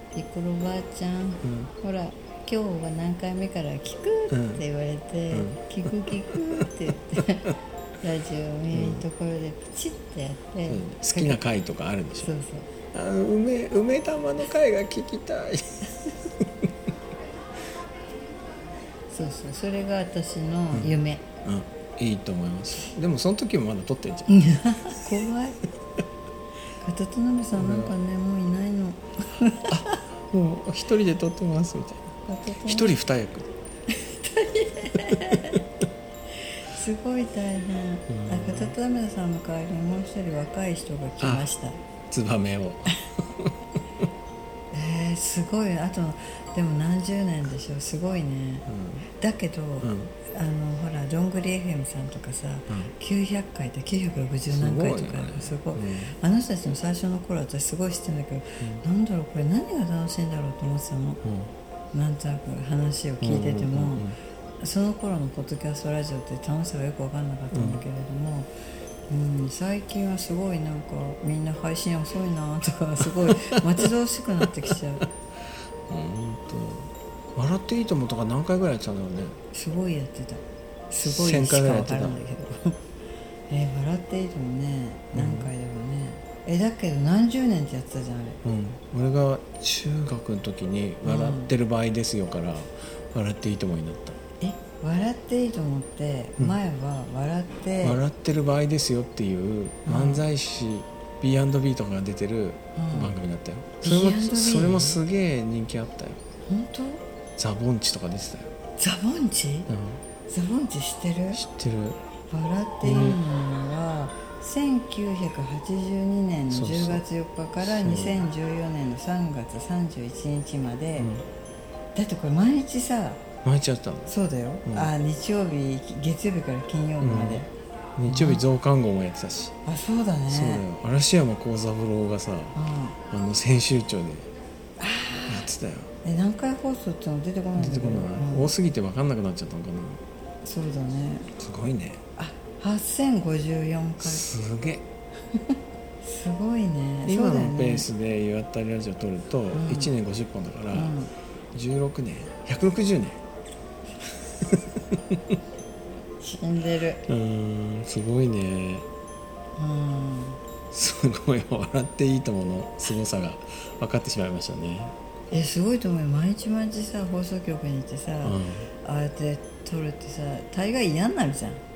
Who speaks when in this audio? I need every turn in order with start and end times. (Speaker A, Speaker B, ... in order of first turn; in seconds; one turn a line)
Speaker A: 0.1-11.4
Speaker B: 1.4-1.7
Speaker B: 4.3-4.6
Speaker B: 5.3-6.4
Speaker B: 8.7-9.0
Speaker B: 10.6-12.3
Speaker A: 12.2-12.7
Speaker B: 12.9-16.7
Speaker A: 19.1-21.2
Speaker B: 21.4-24.4
Speaker A: 24.3-25.6
Speaker A: 26.8-30.0
Speaker B: 27.6-27.9
Speaker B: 29.7-32.0
Speaker A: 32.3-33.0
Speaker B: 32.6-33.5
Speaker A: 33.9-35.6
Speaker B: 35.1-35.6
Speaker A: 36.6-41.8
Speaker B: 38.1-38.7
Speaker B: 41.2-41.5
Speaker B: 42.1-44.0
Speaker A: 44.7-61.2
Speaker B: 48.7-49.1
Speaker B: 49.8-50.1
Speaker B: 54.5-56.1
Speaker B: 61.2-61.5
Speaker A: 61.9-64.0
Speaker B: 63.2-64.1
Speaker A: 64.6-68.5
Speaker B: 67.5-67.8
Speaker A: 69.1-75.1
Speaker B: 73.2-73.8
Speaker B: 75.9-79.4
Speaker A: 79.5-82.8
Speaker B: 81.0-82.2
Speaker A: 83.5-88.4
Speaker B: 85.1-85.5
Speaker B: 88.4-94.2
Speaker A: 91.0-91.5
Speaker A: 94.4-98.0
Speaker B: 97.8-106.2
Speaker A: 99.8-100.3
Speaker A: 102.8-103.2
Speaker A: 103.8-105.0
Speaker A: 106.5-107.0
Speaker B: 107.4-108.5
Speaker A: 108.8-109.7
Speaker B: 109.7-110.0
Speaker A: 110.3-111.4
Speaker B: 111.3-112.0
Speaker A: 112.3-121.1
Speaker B: 112.8-113.2
Speaker B: 116.5-117.0
Speaker B: 117.6-118.2
Speaker B: 121.0-121.2
Speaker A: 121.9-123.2
Speaker B: 123.4-124.1
Speaker A: 124.0-127.5
Speaker B: 124.6-124.9
Speaker B: 127.0-127.4
Speaker B: 128.0-129.5
Speaker A: 128.1-128.4
Speaker A: 129.6-130.6
Speaker B: 130.3-132.6
Speaker A: 132.5-133.0
Speaker B: 133.1-134.3
Speaker A: 134.8-135.5
Speaker B: 135.3-135.9
Speaker A: 136.0-138.5
Speaker B: 137.6-140.0
Speaker A: 140.4-141.3
Speaker B: 141.4-142.0
Speaker A: 142.2-144.2
Speaker B: 144.0-144.8
Speaker A: 145.3-147.9
Speaker B: 147.1-150.9
Speaker A: 149.5-149.9
Speaker A: 150.7-151.1
Speaker B: 151.5-153.2
Speaker B: 154.4-155.4
Speaker A: 156.2-157.0
Speaker B: 157.1-158.8
Speaker A: 159.6-160.4
Speaker B: 160.7-164.9
Speaker A: 165.3-171.6
Speaker B: 168.2-168.7